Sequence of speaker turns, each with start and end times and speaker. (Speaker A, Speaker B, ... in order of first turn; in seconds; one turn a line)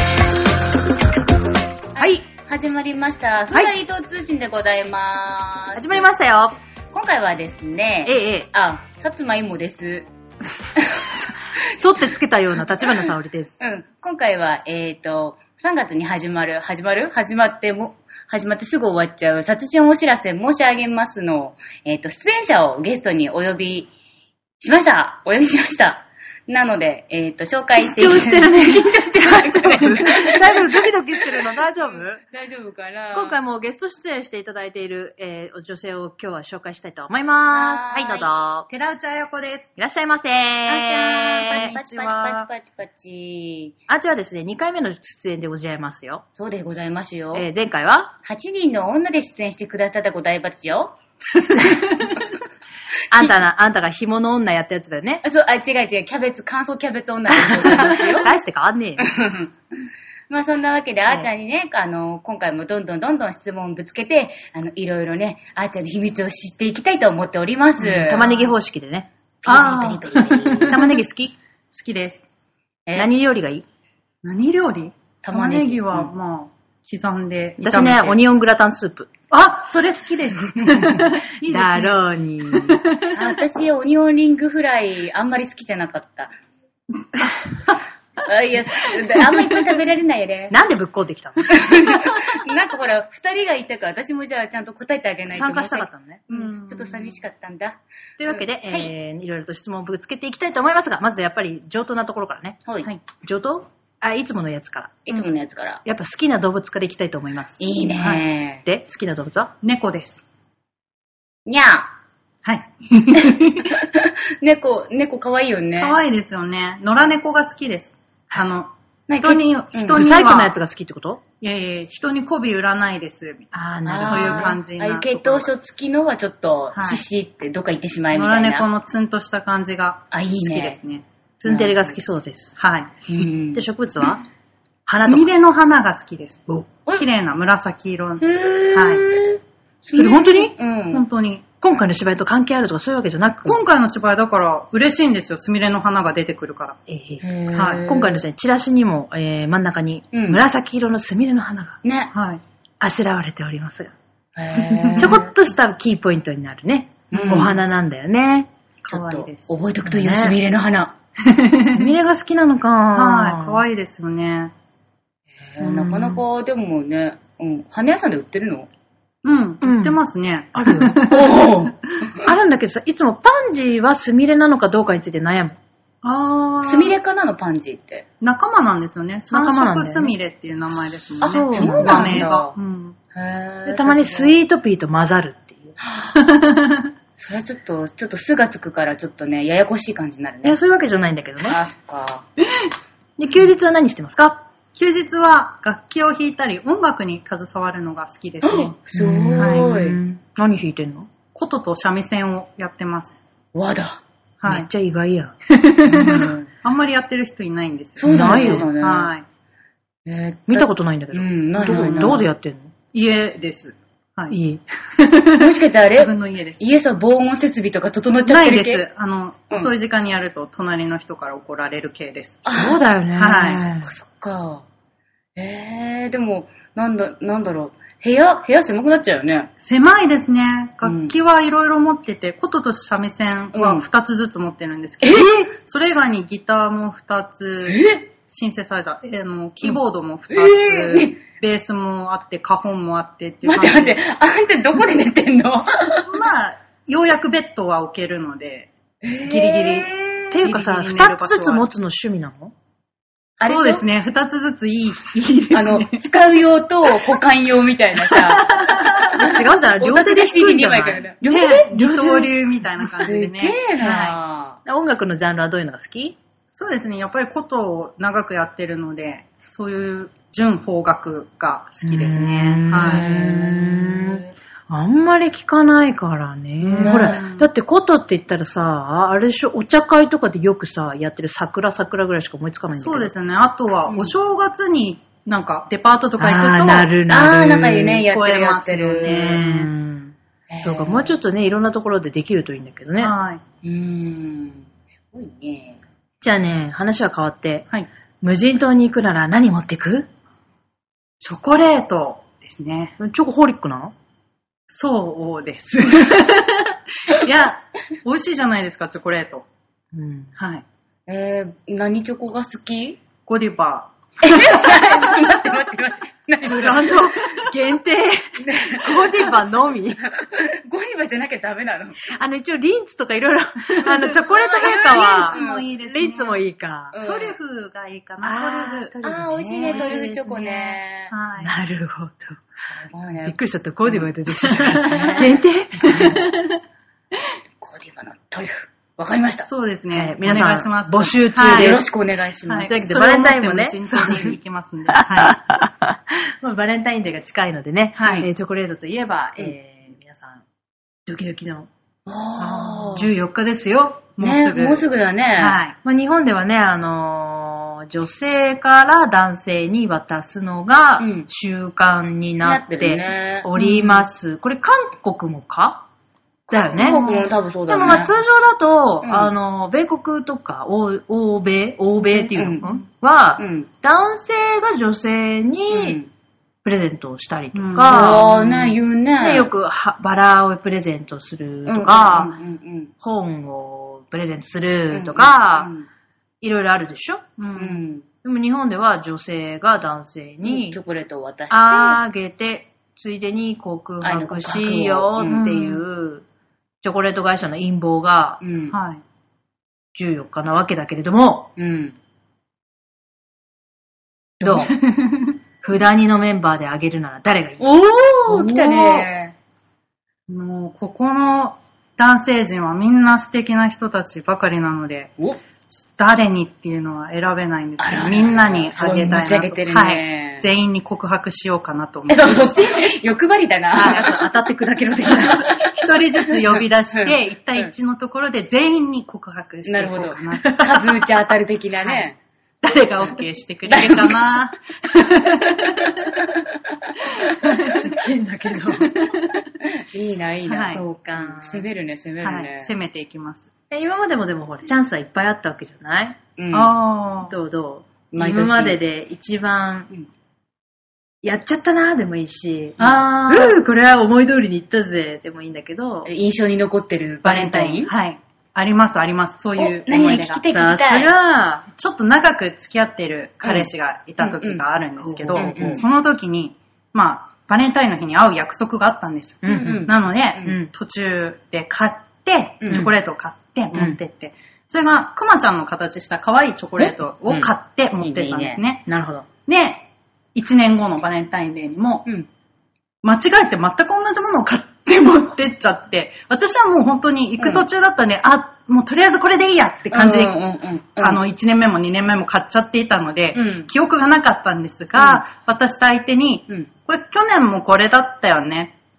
Speaker A: 1.9-6.1
Speaker B: 2.0-2.2
Speaker B: 5.8-6.6
Speaker A: 6.9-10.1
Speaker B: 8.0-8.5
Speaker A: 10.8-11.2
Speaker B: 11.7-13.6
Speaker A: 13.0-23.9
Speaker A: 24.6-30.9
Speaker B: 27.8-32.2
Speaker A: 31.4-33.4
Speaker B: 33.1-38.7
Speaker A: 37.5-38.3
Speaker C: 38.7-39.7
Speaker B: 39.8-41.7
Speaker A: 40.6-43.7
Speaker C: 41.3-42.5
Speaker B: 43.9-46.2
Speaker A: 46.4-47.5
Speaker B: 47.3-48.1
Speaker A: 48.2-50.9
Speaker B: 51.6-52.0
Speaker B: 53.1-55.2
Speaker A: 55.2-58.3
Speaker B: 57.6-59.1
Speaker A: 59.0-59.5
Speaker A: 60.3-68.4
Speaker C: 67.8-68.4
Speaker B: 67.9-69.1
Speaker A: 69.4-70.9
Speaker C: 69.5-70.9
Speaker B: 70.7-71.3
Speaker C: 71.7-72.2
Speaker B: 72.9-73.6
Speaker C: 74.2-78.2
Speaker A: 75.2-76.1
Speaker B: 77.6-79.1
Speaker C: 79.3-81.9
Speaker B: 80.6-82.9
Speaker A: 83.1-86.3
Speaker A: 88.2-90.6
Speaker B: 90.5-91.6
Speaker A: 91.5-98.9
Speaker B: 95.3-96.2
Speaker C: 96.3-97.2
Speaker B: 98.2-102.6
Speaker B: 103.2-105.1
Speaker A: 105.0-105.8
Speaker B: 105.8-107.6
Speaker A: 107.6-108.7
Speaker C: 108.0-108.2
Speaker B: 108.6-109.5
Speaker C: 109.6-110.2
Speaker A: 111.5-111.9
Speaker C: 112.4-113.6
Speaker A: 113.1-116.0
Speaker C: 115.8-120.5
Speaker A: 119.1-120.0
Speaker B: 119.9-121.2
Speaker C: 121.4-125.5
Speaker B: 123.5-124.6
Speaker A: 123.8-128.7
Speaker C: 126.7-127.0
Speaker C: 128.1-131.0
Speaker A: 130.1-130.8
Speaker B: 131.4-132.5
Speaker A: 131.4-131.7
Speaker C: 132.6-132.9
Speaker A: 133.1-133.6
Speaker B: 133.5-134.2
Speaker B: 134.8-135.3
Speaker C: 135.0-139.0
Speaker A: 138.2-141.0
Speaker B: 139.9-140.5
Speaker C: 140.9-141.4
Speaker B: 141.6-143.6
Speaker C: 143.4-146.8
Speaker B: 146.9-147.2
Speaker A: 147.2-148.2
Speaker C: 147.5-147.8
Speaker B: 147.8-151.8
Speaker A: 150.1-150.4
Speaker A: 151.8-152.1
Speaker C: 152.1-152.4
Speaker B: 152.8-153.9
Speaker A: 154.3-155.3
Speaker B: 155.0-158.5
Speaker A: 157.1-157.6
Speaker C: 157.3-157.5
Speaker C: 158.8-159.5
Speaker A: 158.9-160.9
Speaker B: 159.8-160.4
Speaker C: 161.3-161.9
Speaker B: 161.6-163.6
Speaker C: 162.9-164.5
Speaker A: 165.4-168.7
Speaker B: 165.6-166.2
Speaker C: 169.2-171.5
Speaker B: 169.6-170.0
Speaker B: 170.5-171.0
Speaker A: 171.0-171.8
Speaker B: 172.2-175.6
Speaker C: 176.0-177.0
Speaker A: 176.6-178.0
Speaker C: 178.2-182.9
Speaker B: 179.3-180.1
Speaker B: 181.2-182.3
Speaker A: 181.2-182.5
Speaker A: 183.1-184.3
Speaker B: 183.7-185.8
Speaker A: 185.8-186.2
Speaker A: 187.2-190.6
Speaker B: 190.4-191.6
Speaker A: 191.4-192.2
Speaker B: 193.2-194.4
Speaker C: 194.7-198.8
Speaker A: 198.4-200.0
Speaker B: 198.9-201.1
Speaker C: 199.4-199.7
Speaker C: 201.3-203.2
Speaker A: 203.5-204.0
Speaker C: 204.4-204.7
Speaker B: 204.4-205.3
Speaker C: 205.6-209.2
Speaker A: 205.9-206.5
Speaker B: 206.0-206.3
Speaker A: 208.0-209.1
Speaker B: 208.0-208.7
Speaker A: 210.0-212.3
Speaker B: 210.5-212.7
Speaker C: 211.6-212.2
Speaker C: 212.9-214.4
Speaker B: 214.3-214.6
Speaker C: 215.1-216.6
Speaker A: 215.3-218.8
Speaker C: 218.2-222.4
Speaker A: 222.4-222.8
Speaker B: 222.5-223.9
Speaker C: 223.1-223.7
Speaker A: 223.8-224.6
Speaker A: 225.3-229.5
Speaker C: 229.6-244.0
Speaker A: 230.8-231.1
Speaker A: 233.5-233.8
Speaker A: 235.0-235.5
Speaker A: 237.7-238.0
Speaker A: 240.3-241.2
Speaker A: 243.4-246.1
Speaker C: 246.1-248.7
Speaker A: 249.0-250.5
Speaker C: 249.2-249.9
Speaker B: 250.3-252.5
Speaker C: 250.4-251.7
Speaker A: 253.4-253.8
Speaker C: 253.4-256.1
Speaker A: 255.5-261.8
Speaker C: 258.1-259.2
Speaker B: 259.1-261.1
Speaker C: 261.2-264.1
Speaker B: 261.7-262.3
Speaker A: 262.9-264.6
Speaker B: 264.6-266.2
Speaker C: 266.5-273.1
Speaker B: 271.8-283.1
Speaker A: 272.7-274.3
Speaker C: 276.6-277.5
Speaker A: 276.8-277.2
Speaker C: 282.7-286.9
Speaker B: 286.2-288.0
Speaker A: 287.1-289.4
Speaker C: 288.0-289.6
Speaker B: 289.0-293.1
Speaker A: 290.5-291.2
Speaker C: 293.0-293.4
Speaker A: 293.6-295.8
Speaker B: 296.2-297.7
Speaker B: 298.2-300.1
Speaker C: 301.2-302.9
Speaker B: 303.0-303.9
Speaker C: 304.7-309.4
Speaker B: 309.9-310.3
Speaker C: 310.4-310.6
Speaker A: 311.1-313.0
Speaker C: 313.3-315.2
Speaker A: 314.2-317.0
Speaker B: 316.4-320.0
Speaker A: 318.4-322.1
Speaker B: 322.0-327.0
Speaker C: 323.8-324.2
Speaker A: 324.3-325.6
Speaker C: 324.8-326.4
Speaker A: 326.9-327.3
Speaker C: 327.0-328.9
Speaker B: 328.2-330.1
Speaker A: 329.0-331.1
Speaker C: 329.6-331.5
Speaker B: 331.4-332.4
Speaker A: 332.7-333.4
Speaker B: 333.2-336.3
Speaker C: 334.0-335.3
Speaker A: 334.8-335.4
Speaker A: 337.6-339.5
Speaker C: 339.5-341.9
Speaker B: 339.9-341.8
Speaker A: 341.4-342.7
Speaker C: 342.5-345.4
Speaker B: 342.7-344.4
Speaker B: 344.9-350.4
Speaker C: 348.0-348.3
Speaker A: 348.0-348.3
Speaker B: 351.1-351.7
Speaker A: 352.1-353.1
Speaker B: 352.4-353.0
Speaker C: 352.9-354.9
Speaker A: 354.2-355.6
Speaker C: 355.4-355.8
Speaker B: 355.8-365.9
Speaker A: 361.0-361.3
Speaker A: 362.4-364.0
Speaker C: 363.6-363.9
Speaker A: 366.5-368.1
Speaker B: 366.5-376.0
Speaker C: 366.8-367.3
Speaker A: 369.0-369.3
Speaker A: 372.0-372.7
Speaker A: 373.4-373.7
Speaker A: 375.7-376.1
Speaker B: 376.6-382.3
Speaker C: 377.5-378.2
Speaker A: 377.9-379.5
Speaker A: 381.6-382.9
Speaker B: 383.0-385.7
Speaker A: 384.9-385.9
Speaker B: 386.4-387.2
Speaker C: 387.4-387.8
Speaker A: 387.5-388.1
Speaker B: 388.2-390.8
Speaker A: 390.4-392.0
Speaker B: 391.5-396.2
Speaker A: 394.0-395.5
Speaker C: 395.3-395.8
Speaker B: 396.8-398.4
Speaker A: 398.4-398.8
Speaker C: 398.7-399.0
Speaker B: 399.9-401.5
Speaker A: 401.6-402.0
Speaker A: 404.4-404.7
Speaker B: 404.4-404.8
Speaker C: 404.8-405.4
Speaker B: 405.6-409.1
Speaker A: 407.6-409.3
Speaker C: 410.3-415.1
Speaker C: 415.7-422.6
Speaker A: 417.8-420.4
Speaker A: 422.1-424.3
Speaker B: 423.7-425.5
Speaker C: 423.8-424.1
Speaker A: 425.0-425.7
Speaker C: 425.4-430.4
Speaker A: 426.2-427.7
Speaker A: 429.6-432.2
Speaker B: 430.3-431.0
Speaker C: 432.6-436.1
Speaker A: 433.7-434.1
Speaker A: 435.8-437.3
Speaker B: 437.4-439.2
Speaker C: 437.4-437.9
Speaker A: 439.6-442.7
Speaker C: 440.5-440.8
Speaker B: 440.7-441.6
Speaker C: 442.2-443.5
Speaker B: 443.7-446.2
Speaker A: 446.4-446.7
Speaker C: 446.5-447.3
Speaker B: 447.3-449.9
Speaker A: 448.1-448.8
Speaker B: 451.2-456.1
Speaker C: 452.8-453.6
Speaker A: 456.0-457.9
Speaker C: 457.2-460.3
Speaker A: 459.6-461.1
Speaker B: 460.0-461.7
Speaker C: 461.8-478.9
Speaker A: 463.4-464.6
Speaker B: 465.0-465.8
Speaker A: 465.3-465.8
Speaker B: 469.4-470.7
Speaker A: 469.4-470.5
Speaker A: 472.6-472.9
Speaker A: 476.8-478.6
Speaker B: 478.9-479.3
Speaker C: 479.5-482.1
Speaker C: 483.0-490.4
Speaker A: 487.4-487.6
Speaker A: 489.9-491.2
Speaker C: 491.0-498.7
Speaker A: 493.3-493.7
Speaker A: 494.9-495.2